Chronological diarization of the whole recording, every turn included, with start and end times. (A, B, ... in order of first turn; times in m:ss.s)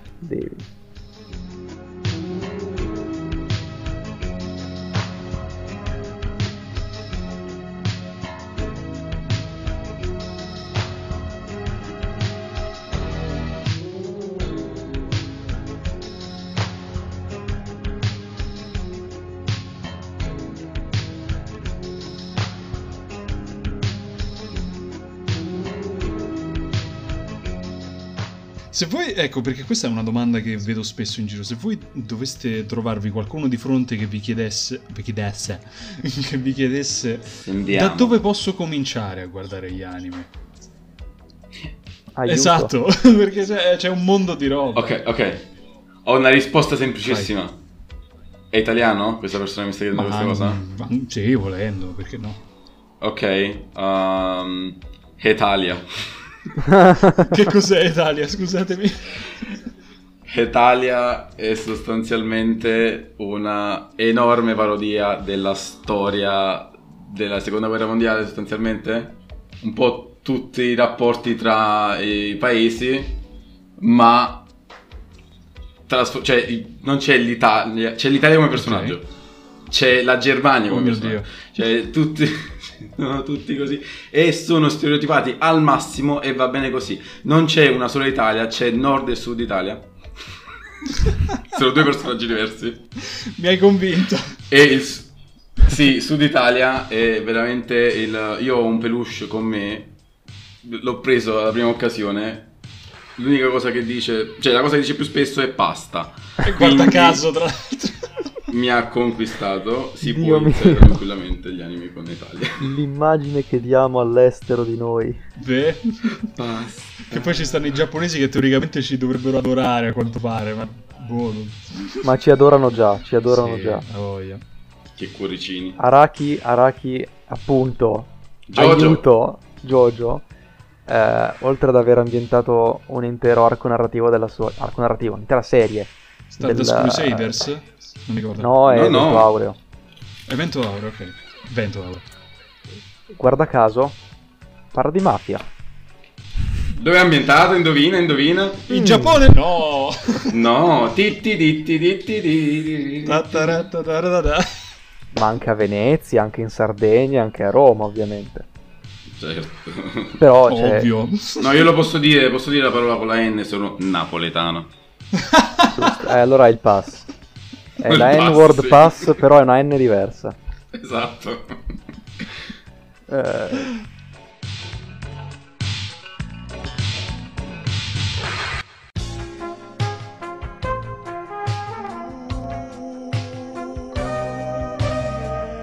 0:00.2-0:00.6 A
0:28.7-0:40.3 B
0:37.4-0:38.2 C
0:42.2-0:42.7 A
0:42.3-0:44.9 B
0:44.7-0:45.5 C
0:46.0-0:47.6 C
0:47.0-0:47.3 B
0:48.5-0:50.6 C
0:49.9-0:52.4 B
0:53.0-0:56.2 C
0:56.6-0:57.3 A
0:57.2-0:59.2 B
1:00.3-1:13.2 C
1:13.8-1:14.5 C
1:15.9-1:19.1 C
1:18.6-1:19.0 B
1:19.7-1:29.9 C
1:20.7-1:21.3 B
1:31.0-1:32.9 C
1:33.1-1:34.4 B
1:34.5-1:39.9 C
1:40.6-1:42.5 C
1:43.2-1:47.2 C
1:46.4-1:48.4 B
1:48.5-1:52.6 C
1:50.0-1:51.0 A
1:52.6-1:55.2 A
1:55.4-1:56.3 B
1:56.1-1:57.6 C
1:57.1-2:02.1 B
2:02.0-2:03.8 A
2:03.3-2:04.4 B
2:05.0-2:05.8 C
2:05.8-2:10.2 A
2:08.5-2:09.0 C
2:10.9-2:17.4 A
2:16.4-2:18.5 B
2:18.4-2:19.6 A
2:18.7-2:19.3 C
2:20.3-2:22.0 B
2:23.1-2:24.0 A
2:24.7-2:25.4 A
2:26.7-2:28.8 C
2:28.7-2:30.4 B
2:28.8-2:29.1 A
2:30.3-2:33.6 C
2:33.1-2:34.5 B
2:35.1-2:38.4 A
2:39.1-2:40.2 C
2:40.2-2:40.9 A
2:40.5-2:41.6 B
2:41.4-2:44.7 C
2:45.2-2:45.7 B
2:45.7-2:47.1 A
2:47.8-2:50.4 A
2:47.8-2:49.2 C
2:50.7-2:52.3 C
2:53.1-2:53.7 A